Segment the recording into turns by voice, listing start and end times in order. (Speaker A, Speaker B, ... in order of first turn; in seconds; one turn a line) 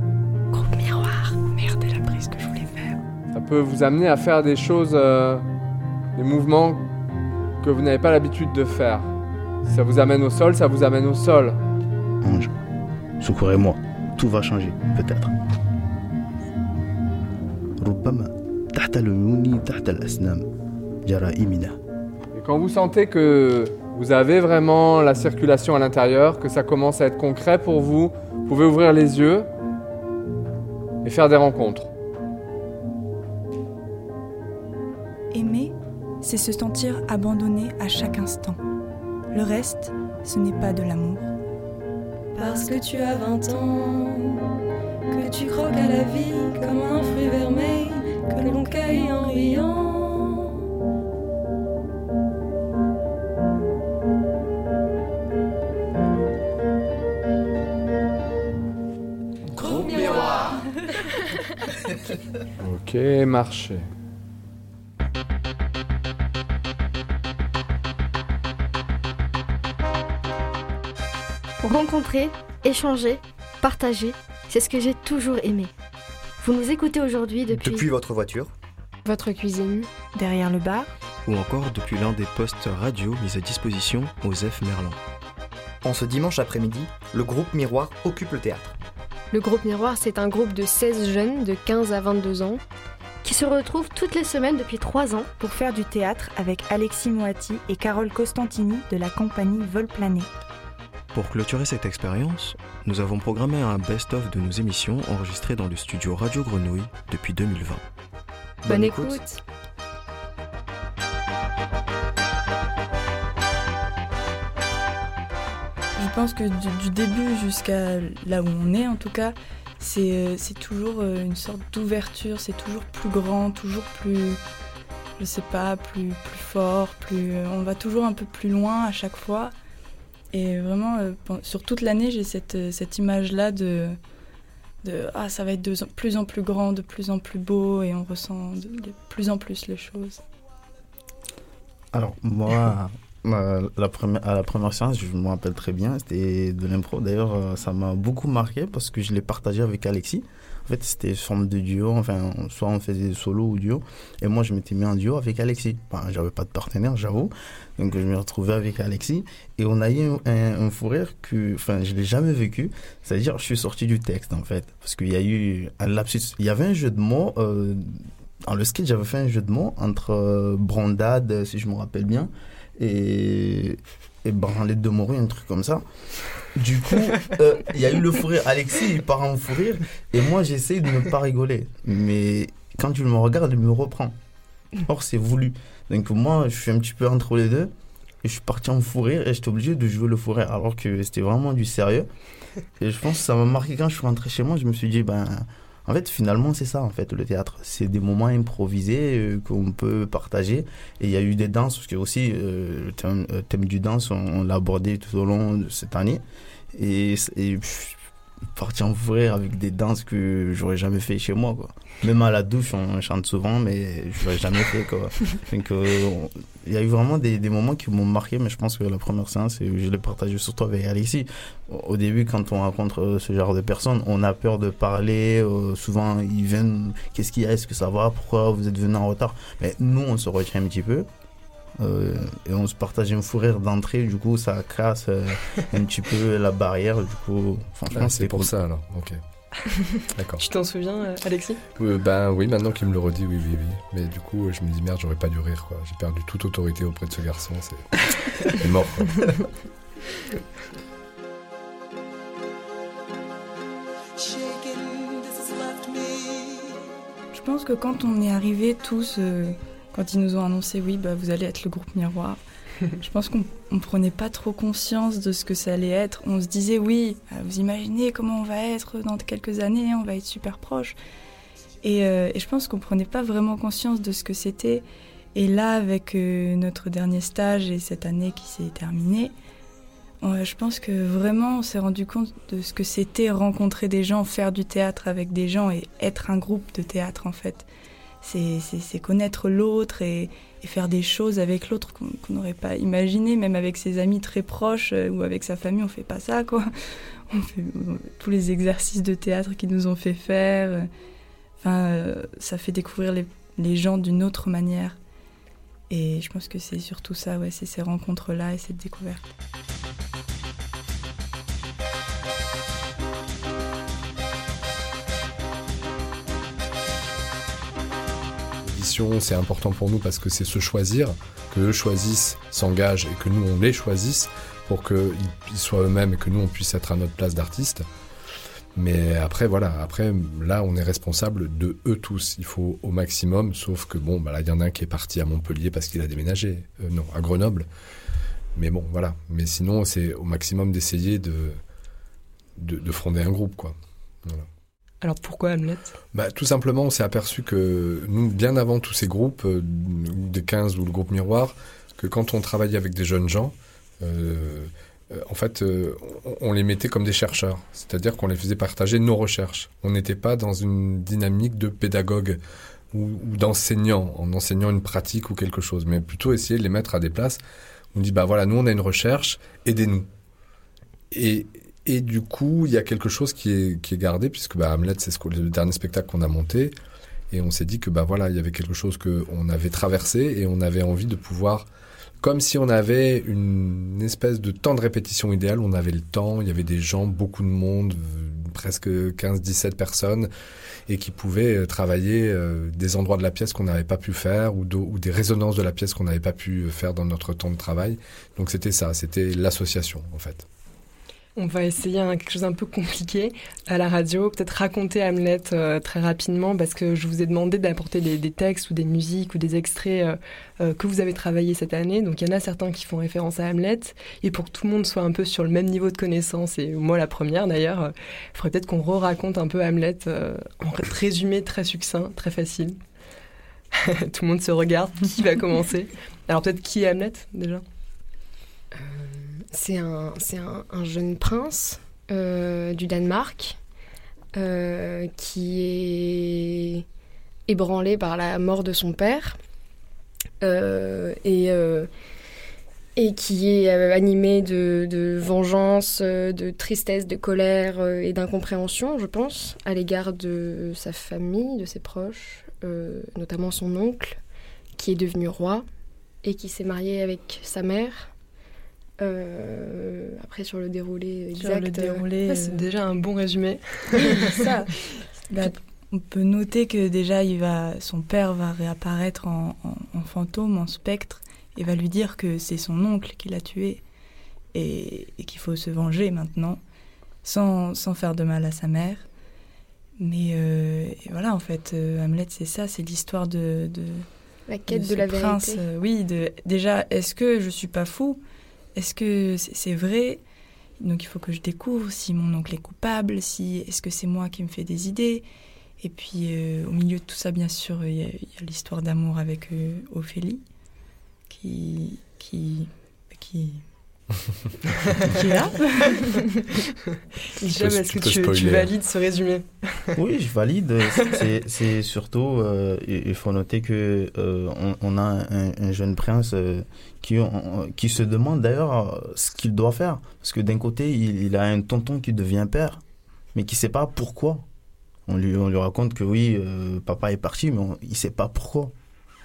Speaker A: 0.5-3.0
Speaker B: 3.3-5.4
Speaker B: 6.2-6.8
Speaker B: 7.6-9.1
Speaker B: 9.6-11.6
Speaker C: 12.2-12.5
Speaker C: 13.2-15.3
Speaker C: 17.8-20.5
Speaker C: 21.0-21.8
Speaker B: 22.3-29.5
Speaker B: 31.0-31.9
Speaker D: 35.3-38.6
Speaker D: 39.3-41.3
Speaker E: 42.3-44.4
Speaker E: 45.1-50.5
Speaker B: 62.6-63.9
Speaker F: 71.6-75.7
Speaker F: 76.4-77.9
Speaker G: 77.6-78.5
Speaker A: 79.0-79.9
Speaker D: 80.1-80.9
Speaker H: 81.2-85.0
Speaker G: 85.8-88.8
Speaker A: 89.3-92.6
Speaker F: 93.2-95.3
Speaker D: 95.4-100.3
Speaker H: 101.1-107.8
Speaker H: 108.6-109.2
Speaker A: 108.7-109.4
Speaker D: 116.0-124.4
Speaker D: 125.2-129.5
Speaker D: 130.3-134.0
Speaker D: 134.8-140.2
Speaker C: 141.9-175.8
Speaker C: 176.5-184.2
Speaker C: 184.8-187.7
Speaker C: 188.2-192.1
Speaker C: 192.8-208.0
Speaker C: 208.5-231.1
Speaker C: 231.8-238.5
Speaker I: 237.9-239.2
Speaker I: 240.1-240.4
Speaker J: 240.4-241.6
Speaker I: 241.8-247.9
Speaker I: 248.5-249.3
Speaker D: 257.3-262.4
Speaker D: 263.0-271.0
Speaker D: 271.8-279.3
Speaker D: 280.2-287.7
Speaker D: 288.2-296.7
Speaker D: 297.3-300.9
Speaker D: 301.6-305.0
Speaker D: 305.9-309.2
Speaker I: 318.6-327.9
Speaker I: 328.8-337.7
Speaker I: 338.5-341.6
Speaker I: 342.6-344.5
Speaker J: 345.0-345.9
Speaker I: 346.1-362.4
Speaker I: 362.9-367.4
Speaker I: 367.9-370.1
Speaker I: 371.1-376.7
Speaker I: 377.3-381.7
Speaker I: 382.2-390.3
Speaker I: 390.9-400.4
Speaker J: 401.4-422.8
Speaker J: 423.7-427.6
Speaker A: 429.5-433.6
Speaker A: 434.3-436.8
Speaker A: 437.5-439.4
Speaker A: 440.4-441.9
Speaker A: 442.9-454.2
Speaker A: 454.8-455.6
Speaker A: 456.2-458.1
Speaker A: 459.0-462.1
Speaker J: 461.4-464.6
Speaker D: 462.1-462.6
Speaker D: 465.3-473.8
Speaker D: 474.5-476.6
Speaker D: 477.2-479.1
Speaker D: 480.0-484.1
Speaker A: 484.5-485.6
Speaker D: 484.7-488.2
Speaker D: 488.7-490.2
Speaker D: 490.8-495.2
Speaker D: 495.8-500.4
Speaker D: 501.3-503.6
Speaker J: 504.9-505.2
Speaker D: 505.1-506.2
Speaker J: 505.8-506.4
Speaker J: 507.4-510.0
Speaker I: 507.5-508.7
Speaker C: 509.9-522.8
Speaker C: 523.3-524.5
Speaker C: 525.1-528.7